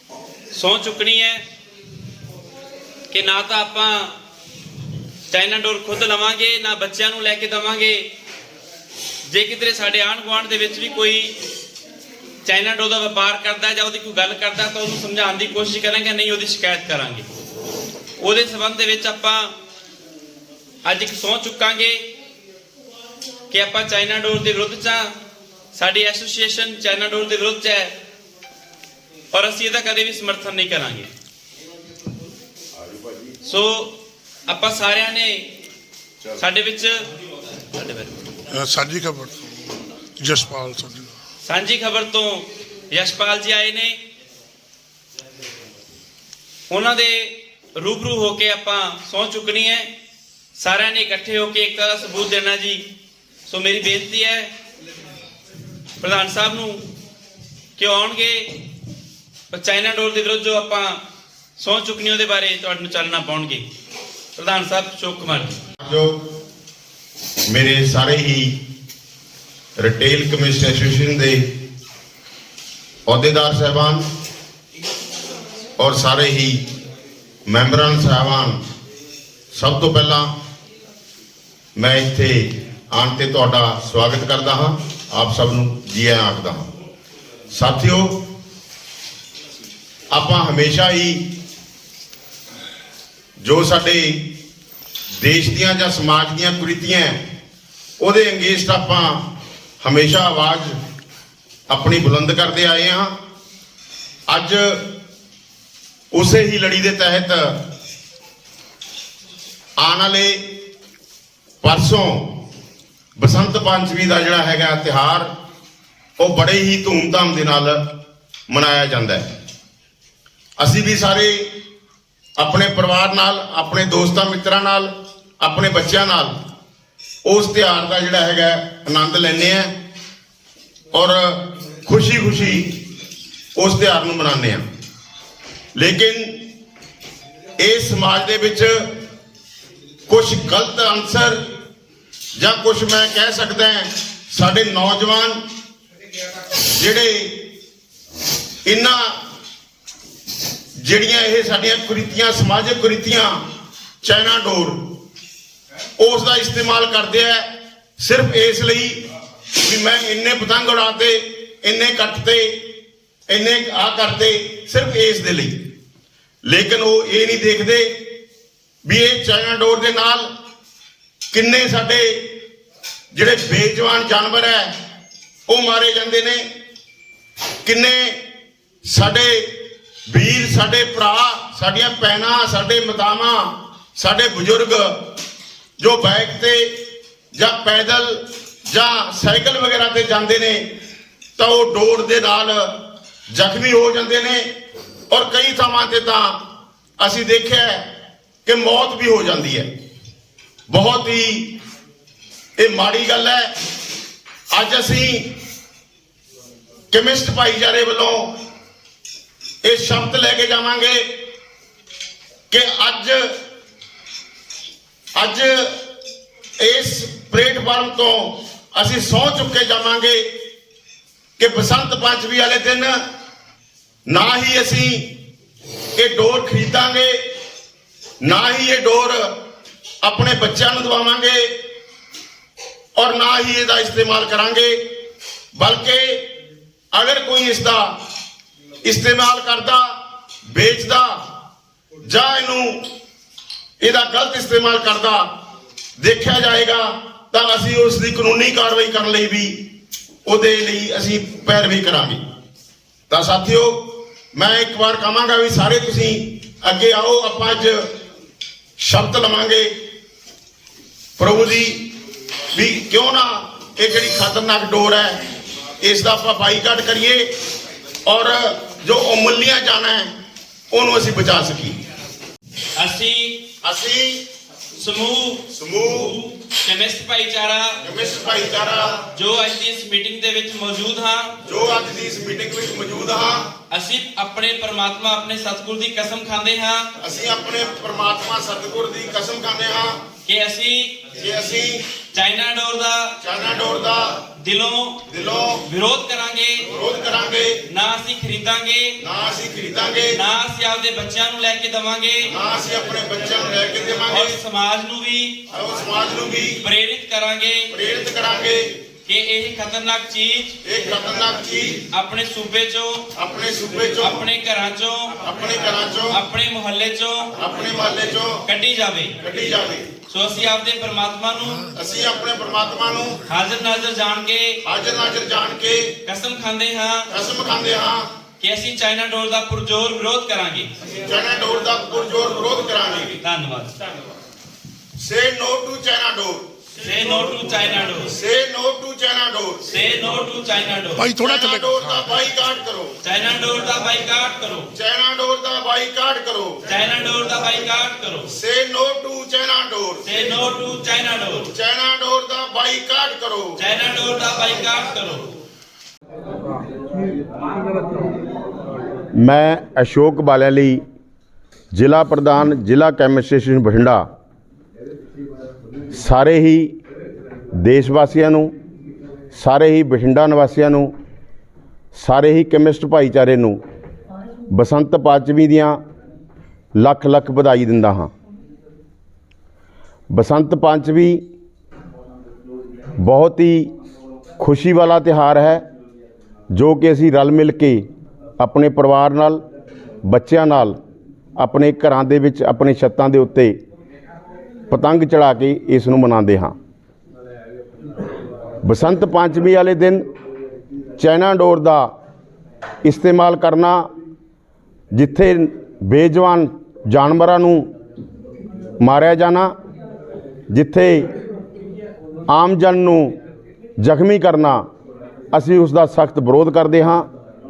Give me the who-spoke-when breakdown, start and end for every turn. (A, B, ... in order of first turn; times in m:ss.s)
0:00.5-0:01.4 A
0:03.1-0:04.2 A
0:05.3-0:08.1 A
0:09.3-0:11.3 A
0:12.4-0:17.2 A
0:18.2-0:19.5 A
0:20.8-0:22.0 A
0:23.5-0:25.2 A
0:25.7-0:27.9 A
0:29.3-0:31.1 A
0:33.4-0:34.0 A
0:34.5-0:35.5 A
0:36.3-0:37.1 A
0:37.7-0:38.3 A
0:38.5-0:39.5 B
0:40.2-0:41.1 B
0:41.4-0:44.0 A
0:46.7-0:49.9 A
0:50.5-0:52.8 A
0:53.4-0:54.5 A
0:56.0-0:56.8 A
0:57.8-0:58.6 A
0:59.5-1:01.0 A
1:01.6-1:03.6 A
1:04.4-1:05.6 A
1:05.8-1:06.2 C
1:07.5-1:08.6 C
1:09.8-1:11.6 C
1:13.0-1:14.0 C
1:15.8-1:16.6 C
1:17.5-1:18.6 C
1:19.5-1:20.3 C
1:21.8-1:26.7 C
1:27.5-1:28.3 C
1:30.1-1:31.3 C
1:33.4-1:34.4 C
1:35.2-1:37.2 C
1:38.0-1:39.3 C
1:39.8-1:40.8 C
1:41.7-1:43.2 C
1:44.3-1:44.9 C
1:46.1-1:47.6 C
1:49.8-1:50.5 C
1:51.6-1:52.4 C
1:53.2-1:55.3 C
1:56.2-1:57.9 C
1:58.5-1:59.2 C
2:00.6-2:01.5 C
2:02.4-2:06.4 C
2:07.2-2:09.7 C
2:10.9-2:12.8 C
2:13.6-2:14.6 C
2:15.7-2:16.5 C
2:17.6-2:18.9 C
2:20.1-2:21.4 C
2:22.4-2:25.4 C
2:26.5-2:27.4 C
2:28.6-2:29.2 C
2:30.8-2:33.4 C
2:34.0-2:35.0 C
2:36.0-2:42.7 C
2:43.3-2:45.7 C
2:46.4-2:48.1 C
2:48.8-2:50.3 C
2:51.3-2:52.4 C
2:53.1-2:54.8 C
2:55.5-2:56.4 C
2:57.6-2:58.2 C
2:58.8-3:05.1 C
3:05.8-3:06.8 C
3:07.3-3:10.7 C
3:11.4-3:14.5 C
3:15.1-3:16.4 C
3:17.0-3:17.9 C
3:18.4-3:19.7 C
3:20.7-3:21.6 C
3:22.6-3:23.5 C
3:24.5-3:25.3 C
3:26.9-3:28.4 C
3:29.6-3:31.3 C
3:32.5-3:33.4 C
3:35.2-3:35.8 C
3:36.6-3:40.3 C
3:41.4-3:43.0 C
3:44.0-3:45.1 C
3:46.0-3:47.3 C
3:48.2-3:49.4 C
3:50.0-3:51.6 C
3:53.0-3:54.9 C
3:55.5-3:56.3 C
3:56.9-3:58.0 C
3:58.8-4:01.2 C
4:02.0-4:02.9 C
4:03.8-4:05.3 C
4:06.0-4:09.6 C
4:10.2-4:12.2 C
4:13.1-4:17.9 C
4:18.8-4:19.8 C
4:21.2-4:21.9 C
4:22.5-4:25.2 C
4:25.8-4:27.3 C
4:28.0-4:30.1 C
4:30.7-4:31.8 C
4:32.8-4:33.5 A
4:33.6-4:34.2 C
4:34.7-4:37.8 A
4:35.5-4:36.2 C
4:37.8-4:39.0 C
4:39.1-4:41.4 A
4:41.4-4:43.5 C
4:43.7-4:46.9 A
4:47.0-4:50.0 C
4:50.2-4:51.1 A
4:51.1-4:51.8 C
4:52.1-4:53.2 A
4:53.2-4:54.2 C
4:54.4-4:55.0 A
4:55.1-4:55.6 C
4:55.6-4:56.7 A
4:56.6-4:57.6 C
4:57.6-4:59.0 A
4:59.0-5:00.2 C
5:00.1-5:02.3 A
5:02.3-5:04.4 C
5:04.1-5:05.4 A
5:05.5-5:06.6 C
5:06.6-5:07.7 A
5:07.7-5:08.8 C
5:09.0-5:10.6 A
5:10.6-5:11.8 C
5:11.9-5:13.1 A
5:13.1-5:14.2 C
5:14.0-5:15.2 A
5:15.2-5:16.2 C
5:16.1-5:17.3 A
5:17.3-5:18.4 C
5:18.4-5:19.2 A
5:19.2-5:19.9 C
5:20.1-5:21.7 A
5:21.7-5:23.2 C
5:23.2-5:24.6 A
5:24.6-5:25.9 C
5:26.0-5:27.1 A
5:27.1-5:28.1 C
5:28.4-5:30.7 A
5:30.9-5:33.2 C
5:33.2-5:33.8 A
5:35.0-5:36.5 C
5:36.8-5:38.1 A
5:38.1-5:39.6 C
5:39.7-5:41.2 A
5:41.1-5:43.0 C
5:41.3-5:41.6 B
5:43.0-5:44.7 A
5:44.7-5:46.6 C
5:46.6-5:48.3 A
5:48.3-5:50.1 C
5:50.0-5:51.5 A
5:51.4-5:53.6 C
5:53.6-5:55.3 A
5:59.2-6:00.8 C
6:01.7-6:04.0 C
6:05.9-6:06.7 C
6:07.6-6:08.5 C
6:09.3-6:10.9 C
6:11.9-6:13.6 C
6:14.5-6:15.8 C
6:16.8-6:18.1 C
6:20.1-6:21.2 C
6:23.0-6:23.7 C
6:24.4-6:25.6 C
6:26.5-6:27.9 C
6:28.4-6:29.4 C
6:30.0-6:30.8 C
6:31.4-6:33.6 C
6:34.7-6:36.5 C
6:38.6-6:40.0 C
6:41.0-6:41.9 C
6:42.8-6:43.9 C
6:44.9-6:47.7 C
6:48.8-6:49.5 C
6:50.5-6:51.1 C
6:52.3-6:53.1 C
6:53.8-6:54.6 C
6:55.3-6:57.1 C